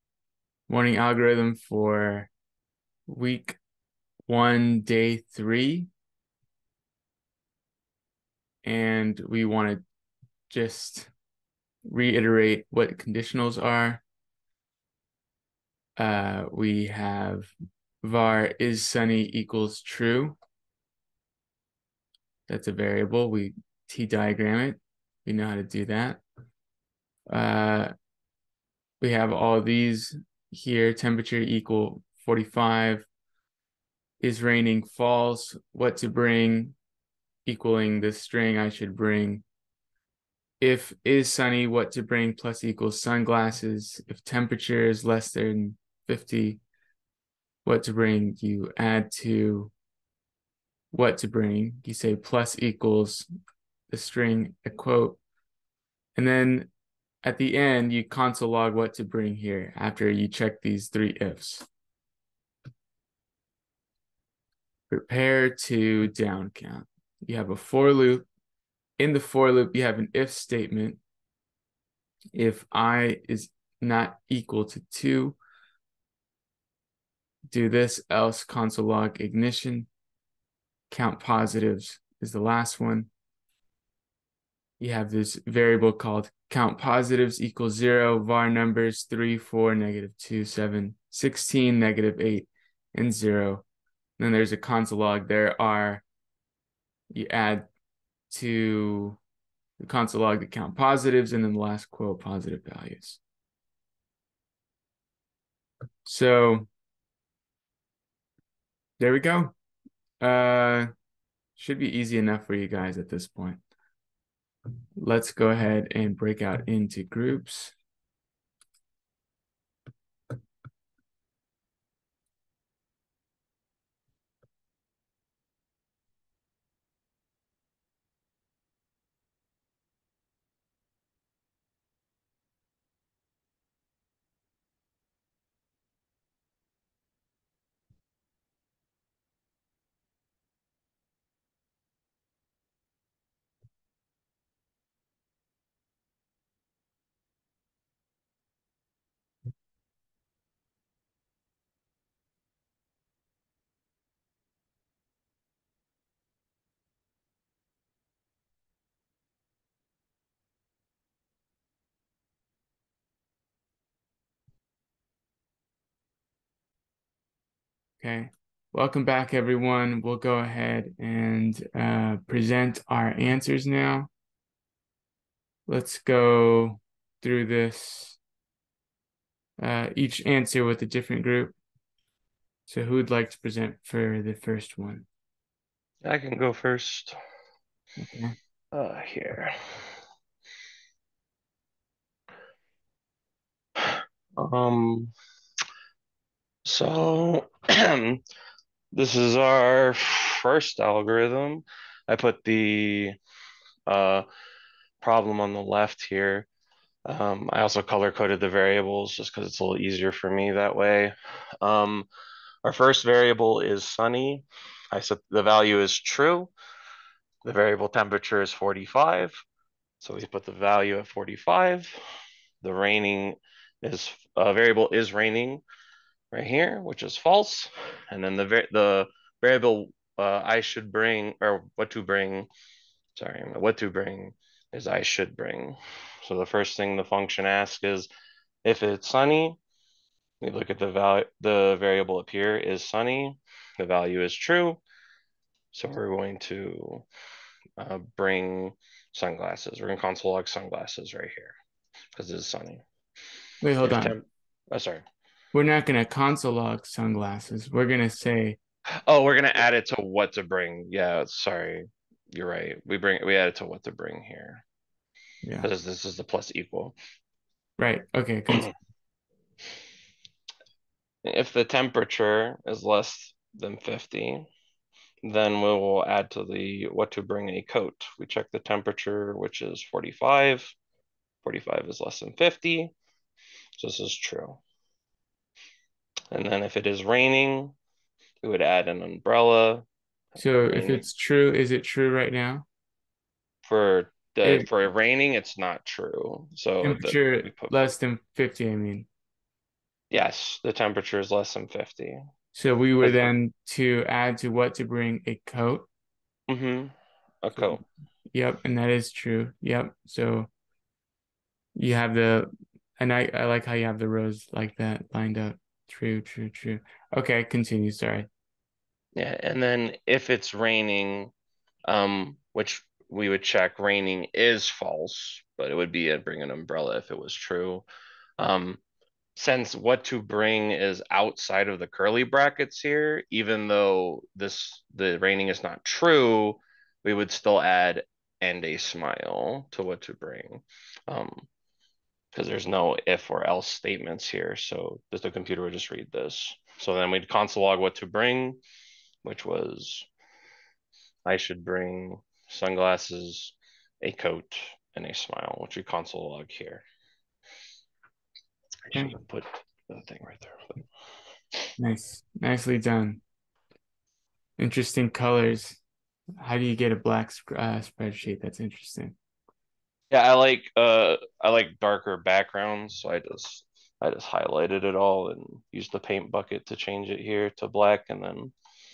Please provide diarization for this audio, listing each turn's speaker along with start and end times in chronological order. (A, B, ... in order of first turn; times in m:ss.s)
0:00.7-0:02.3 A
0:03.1-0:03.6 A
0:04.3-0:05.9 A
0:08.6-0:09.8 A
0:10.5-0:11.1 A
0:11.8-0:14.0 A
0:16.0-0:17.5 A
0:18.0-0:20.4 A
0:22.5-0:26.2 A
0:27.3-0:27.9 A
0:29.0-0:33.1 A
0:34.2-0:36.8 A
0:37.4-0:39.4 A
0:40.6-0:46.6 A
0:47.6-0:49.7 A
0:50.9-0:53.2 A
0:53.9-0:55.2 A
0:56.2-0:56.7 A
0:57.2-1:01.6 A
1:04.9-1:08.3 A
1:09.0-1:11.0 A
1:12.3-1:15.4 A
1:17.5-1:19.9 A
1:20.9-1:23.1 A
1:24.8-1:33.6 A
1:34.2-1:36.0 A
1:37.1-1:37.6 A
1:38.3-1:39.2 A
1:39.8-1:43.2 A
1:46.0-1:46.7 A
1:49.0-1:49.5 A
1:50.2-1:50.9 A
1:51.6-1:53.6 A
1:55.0-1:57.7 A
2:48.0-2:54.1 A
2:55.7-2:58.2 A
2:59.6-3:01.6 A
3:02.7-3:05.1 A
3:06.0-3:07.2 B
3:08.0-3:08.3 A
3:08.7-3:09.5 B
3:14.4-3:15.1 B
3:16.6-3:18.2 B
3:18.9-3:23.2 B
3:23.9-3:24.2 B
3:25.0-3:26.5 B
3:27.1-3:32.0 B
3:32.6-3:36.5 B
3:37.4-3:39.4 B
3:40.0-3:41.9 B
3:42.6-3:45.6 B
3:46.3-3:52.5 B
3:53.2-3:58.1 B
3:58.6-3:59.6 B
4:00.4-4:04.8 B
4:05.7-4:07.0 B
4:07.8-4:11.5 B
4:12.1-4:12.8 B
4:13.6-4:14.2 A
4:13.8-4:15.0 B
4:15.5-4:18.6 A
4:19.1-4:24.6 B
4:25.4-4:25.7 A
4:25.6-4:26.9 B
4:27.8-4:28.7 A
4:31.2-4:34.5 B
4:35.2-4:40.7 B
4:41.4-4:42.9 B
4:43.8-4:44.6 B
4:46.3-4:47.7 B
4:48.4-4:49.8 B
4:50.4-4:52.6 A
4:50.4-4:51.0 B
4:53.6-4:57.9 B
4:56.8-4:59.1 A
5:00.1-5:02.2 B
5:02.5-5:05.9 A
5:03.0-5:03.3 B
5:06.5-5:07.8 B
5:08.3-5:10.5 A
5:11.8-5:18.3 A
5:19.2-5:21.3 B
5:21.9-5:27.8 B
5:28.4-5:28.8 B
5:29.4-5:41.4 B
5:42.3-5:48.6 B
5:49.2-5:50.1 B
5:51.2-5:56.8 B
5:58.9-6:00.8 B
6:01.8-6:03.2 A
6:04.6-6:05.8 A
6:06.4-6:09.1 A
6:10.1-6:18.5 B